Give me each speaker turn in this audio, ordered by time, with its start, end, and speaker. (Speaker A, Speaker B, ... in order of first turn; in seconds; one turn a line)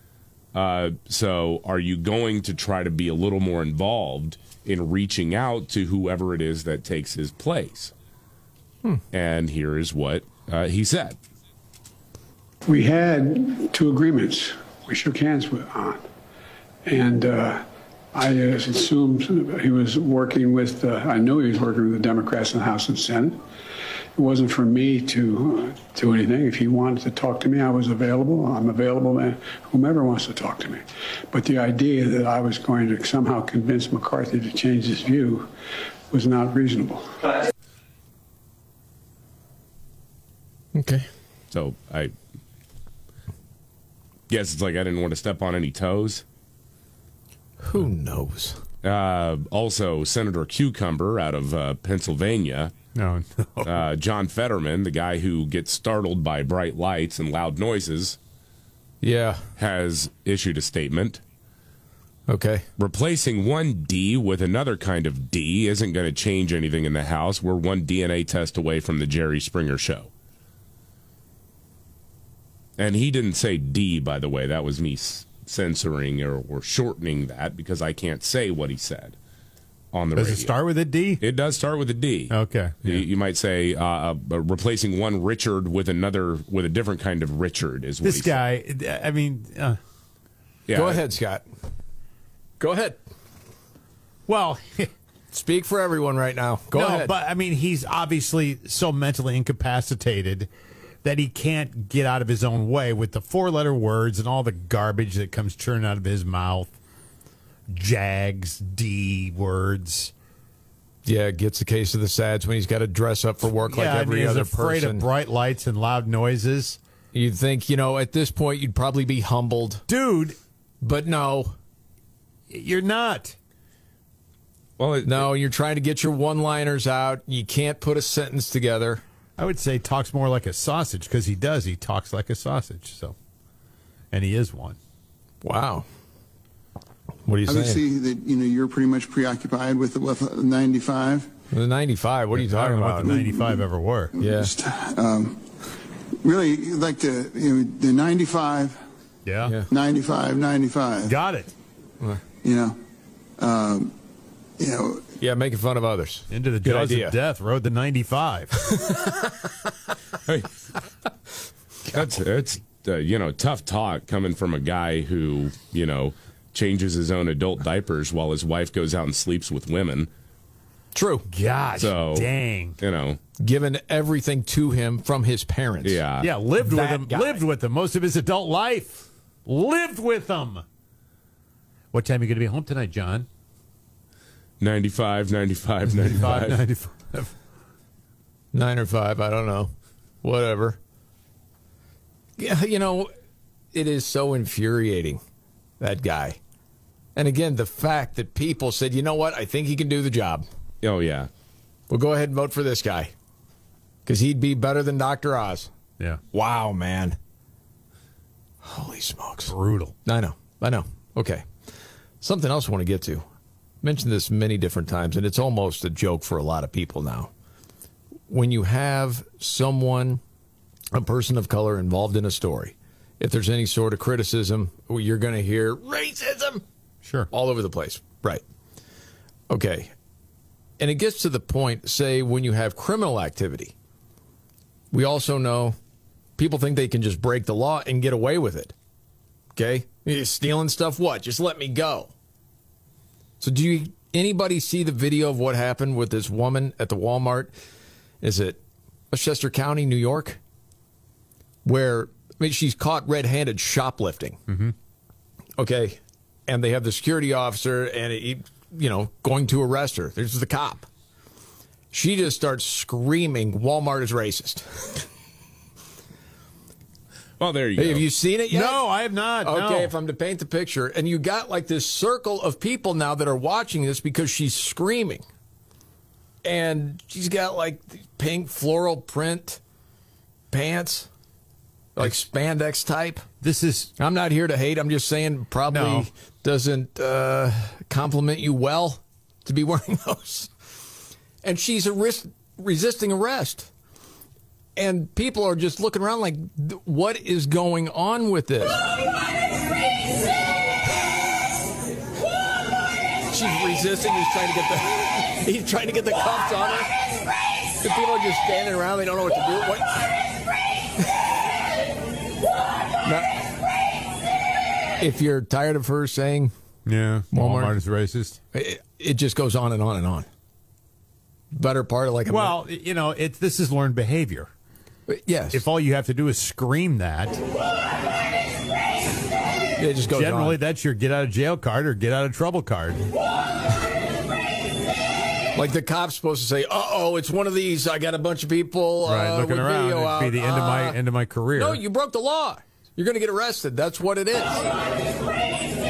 Speaker A: 0.5-7.9
Speaker A: 9.1-11.2
Speaker B: 12.7-16.0
Speaker B: 16.8-23.4
Speaker B: 24.1-35.5
Speaker B: 36.1-37.3
Speaker C: 40.7-41.1
Speaker A: 41.5-42.1
Speaker A: 44.3-46.2
Speaker C: 47.6-48.6
Speaker A: 48.8-52.7
Speaker D: 52.9-53.8
Speaker A: 53.6-58.2
Speaker C: 59.0-59.4
Speaker A: 59.6-61.2
Speaker C: 62.3-62.6
Speaker A: 62.8-70.1
Speaker A: 72.8-79.2
Speaker A: 79.9-80.5
Speaker D: 80.1-81.2
Speaker A: 81.2-88.4
Speaker D: 82.3-83.0
Speaker D: 88.0-89.8
Speaker A: 90.7-91.0
Speaker C: 90.7-91.4
Speaker C: 92.6-93.0
Speaker D: 94.3-94.9
Speaker C: 95.3-97.1
Speaker D: 96.7-100.5
Speaker D: 101.0-106.7
Speaker D: 107.7-110.1
Speaker C: 111.0-115.0
Speaker D: 113.6-116.8
Speaker C: 117.1-119.8
Speaker D: 119.9-120.4
Speaker C: 120.8-121.5
Speaker D: 122.5-123.3
Speaker A: 124.8-125.3
Speaker C: 125.0-129.0
Speaker D: 129.4-133.1
Speaker D: 134.1-134.8
Speaker C: 135.4-135.8
Speaker C: 137.2-137.8
Speaker E: 137.4-141.3
Speaker C: 141.5-143.2
Speaker D: 142.3-144.2
Speaker E: 143.1-143.7
Speaker C: 144.2-144.5
Speaker E: 144.2-145.4
Speaker E: 146.2-148.8
Speaker D: 149.2-149.6
Speaker E: 149.7-151.1
Speaker D: 151.1-151.5
Speaker E: 152.4-152.8
Speaker E: 153.4-153.9
Speaker E: 154.6-155.0
Speaker C: 155.2-157.1
Speaker D: 156.3-158.5
Speaker C: 158.8-159.1
Speaker A: 161.9-170.1
Speaker C: 170.9-171.2
Speaker D: 171.3-172.8
Speaker A: 171.8-173.2
Speaker C: 173.4-176.0
Speaker A: 175.8-176.3
Speaker D: 176.2-180.6
Speaker C: 176.6-177.4
Speaker D: 181.9-183.3
Speaker A: 184.6-186.6
Speaker D: 185.9-187.3
Speaker C: 188.5-190.8
Speaker C: 192.4-193.1
Speaker C: 193.7-195.2
Speaker C: 195.8-196.4
Speaker C: 197.2-200.5
Speaker A: 200.8-201.3
Speaker C: 201.9-203.1
Speaker C: 204.1-205.7
Speaker C: 206.3-207.2
Speaker C: 208.6-209.5
Speaker D: 209.5-209.9
Speaker C: 210.0-211.7
Speaker C: 212.2-213.2
Speaker C: 213.8-217.3
Speaker C: 218.3-220.2
Speaker C: 220.9-226.6
Speaker D: 227.0-227.3
Speaker C: 227.3-228.4
Speaker C: 229.5-229.9
Speaker C: 230.8-233.7
Speaker C: 234.9-235.8
Speaker C: 236.4-238.7
Speaker C: 239.5-242.1
Speaker C: 243.4-247.5
Speaker C: 248.2-248.6
Speaker C: 249.1-250.4
Speaker C: 251.6-254.4
Speaker D: 254.5-254.7
Speaker C: 255.6-260.9
Speaker C: 261.9-265.0
Speaker A: 267.4-268.1
Speaker C: 267.8-268.9
Speaker D: 268.5-269.9
Speaker C: 269.4-275.2
Speaker C: 276.4-279.6
Speaker C: 280.5-281.1
Speaker C: 281.9-283.2
Speaker D: 283.4-283.9
Speaker C: 284.0-290.5
Speaker D: 285.7-286.1
Speaker C: 291.4-293.7
Speaker C: 294.8-298.8
Speaker C: 303.3-306.9
Speaker C: 307.8-310.1
Speaker C: 313.0-313.3
Speaker C: 315.0-316.5
Speaker D: 316.9-318.4
Speaker C: 317.3-317.7
Speaker C: 318.5-320.3
Speaker C: 321.5-322.6
Speaker D: 322.3-324.5
Speaker C: 325.1-325.6
Speaker D: 325.5-327.4
Speaker C: 329.8-330.6
Speaker D: 330.1-333.0
Speaker C: 335.5-341.0
Speaker D: 339.0-341.8
Speaker C: 341.5-344.6